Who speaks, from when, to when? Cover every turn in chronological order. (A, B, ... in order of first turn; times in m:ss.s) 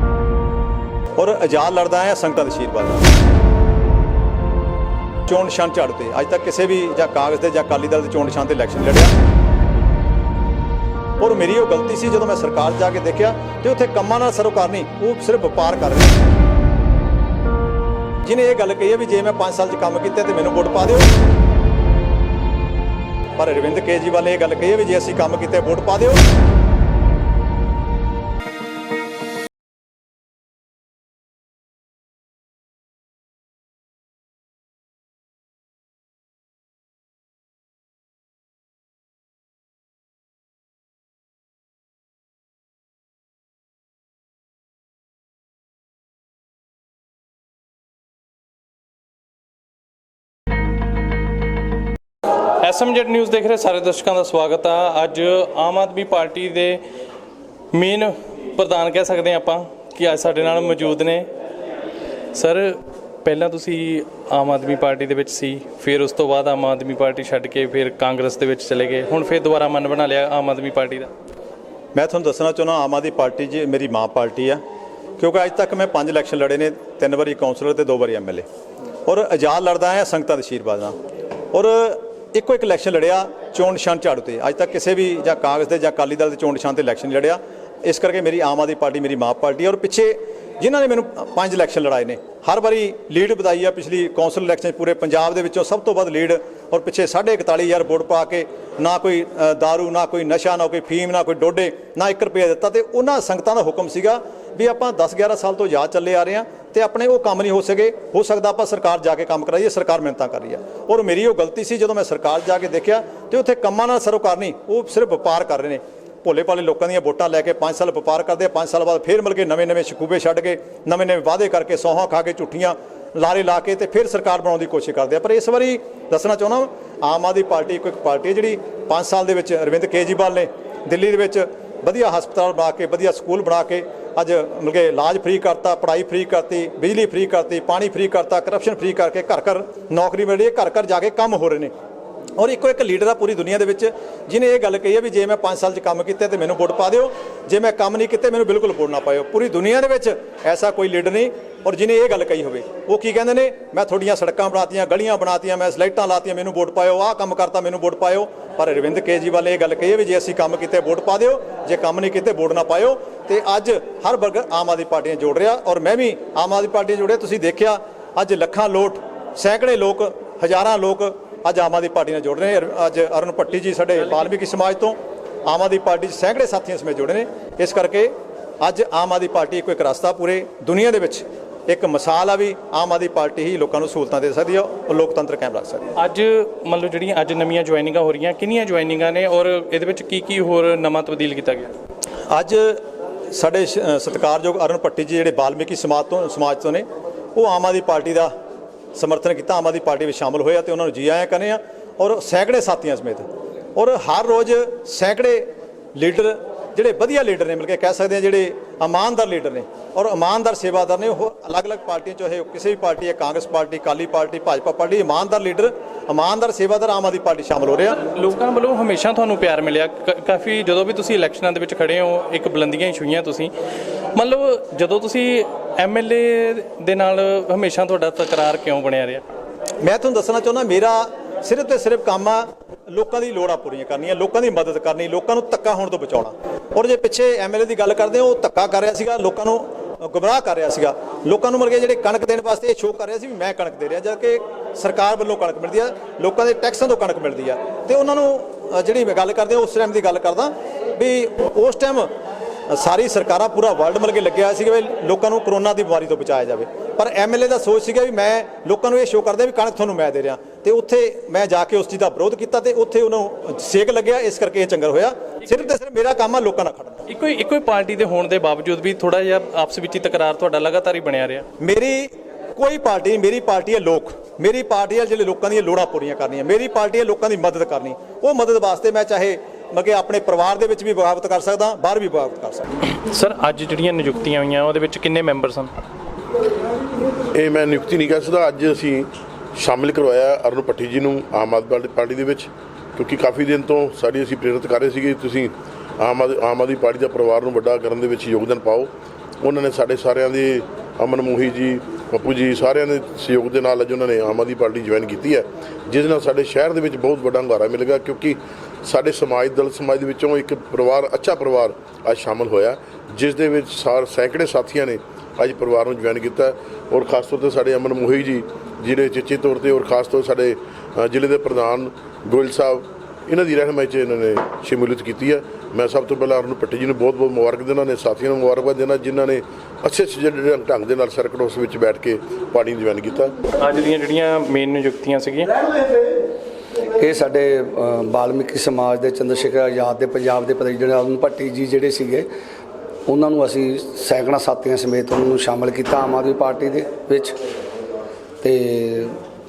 0:01.2-0:03.0 A
0:05.3-0:09.1 A
0:11.2-0:16.2 A
0:18.2-0:21.1 A
0:23.4-0:26.2 A
0:52.6-0:56.8 B
0:57.7-1:01.3 B
1:02.3-1:11.1 B
1:11.9-1:14.6 A
1:15.2-1:18.4 A
1:19.0-1:21.0 A
1:21.5-2:21.7 A
2:22.4-3:05.8 A
3:06.0-3:11.7 B
3:12.3-3:18.3 A
3:18.9-3:23.2 A
3:23.8-3:38.0 A
3:38.0-3:43.5 B
3:44.1-3:49.2 B
3:49.8-4:12.1 A
4:12.7-4:27.0 A
4:27.1-4:31.4 B
4:31.6-4:42.7 A
4:43.0-4:45.7 B
4:47.3-4:58.9 C
4:59.4-5:33.3 C
5:33.6-5:35.5 B
5:37.0-5:42.3 D
5:43.1-5:47.4 D
5:48.4-5:49.2 D